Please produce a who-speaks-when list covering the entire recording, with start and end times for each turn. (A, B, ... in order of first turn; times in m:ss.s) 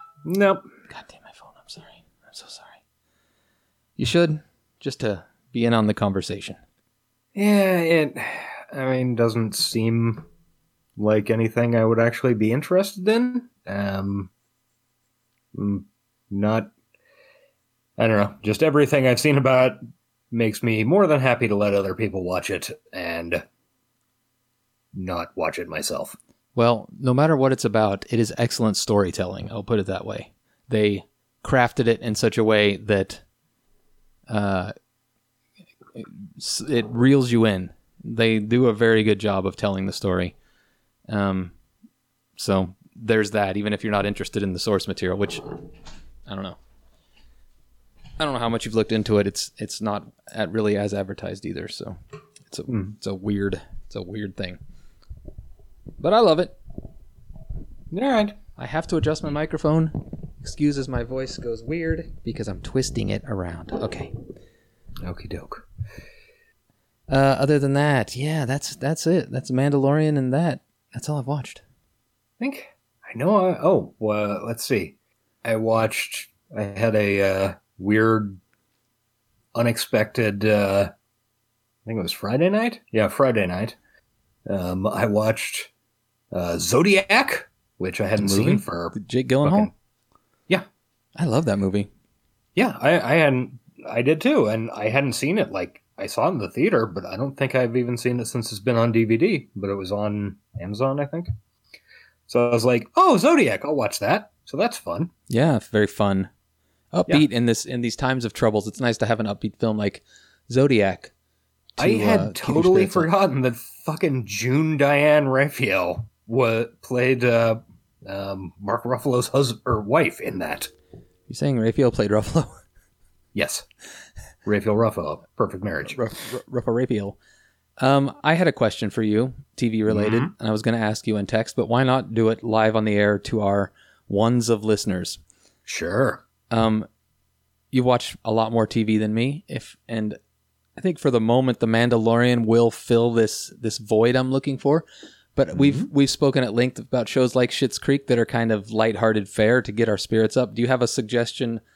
0:00.2-0:00.6 A
0:00.9-0:02.8 B
0:04.0-0:06.6 B
0:07.3-0:10.3 A
0:11.0-0:14.3 A
0:15.5-0:16.7 A
0:18.0-0:23.4 A
0:24.9-0:26.2 A
0:26.5-0:33.2 B
0:34.3-0:34.7 B
0:36.0-0:40.3 B
0:41.1-0:41.5 B
0:42.4-0:45.4 B
0:46.2-0:46.6 B
0:48.2-0:52.0 B
0:52.5-0:54.6 B
0:52.7-0:52.9 A
0:56.0-0:56.6 B
0:57.9-0:58.4 A
0:58.6-1:04.1 B
1:05.0-1:05.7 A
1:07.1-1:11.6 B
1:12.4-1:18.4 A
1:19.5-1:20.9 A
1:21.8-1:23.8 A
1:24.4-1:25.7 A
1:26.3-1:29.7 A
1:28.2-1:29.7 B
1:31.2-1:31.9 B
1:32.5-1:41.3 A
1:42.3-1:45.1 A
1:45.3-1:46.3 B
1:46.9-1:51.1 B
1:51.8-1:53.1 B
1:51.8-2:00.7 A
2:01.3-2:02.6 B
2:03.3-2:03.6 A
2:04.4-2:06.0 A
2:05.9-2:07.2 B
2:07.8-2:15.2 B
2:09.9-2:10.3 A
2:15.6-2:16.2 A
2:16.5-2:16.9 B
2:17.7-2:20.2 B
2:20.8-2:31.6 B
2:25.5-2:25.9 A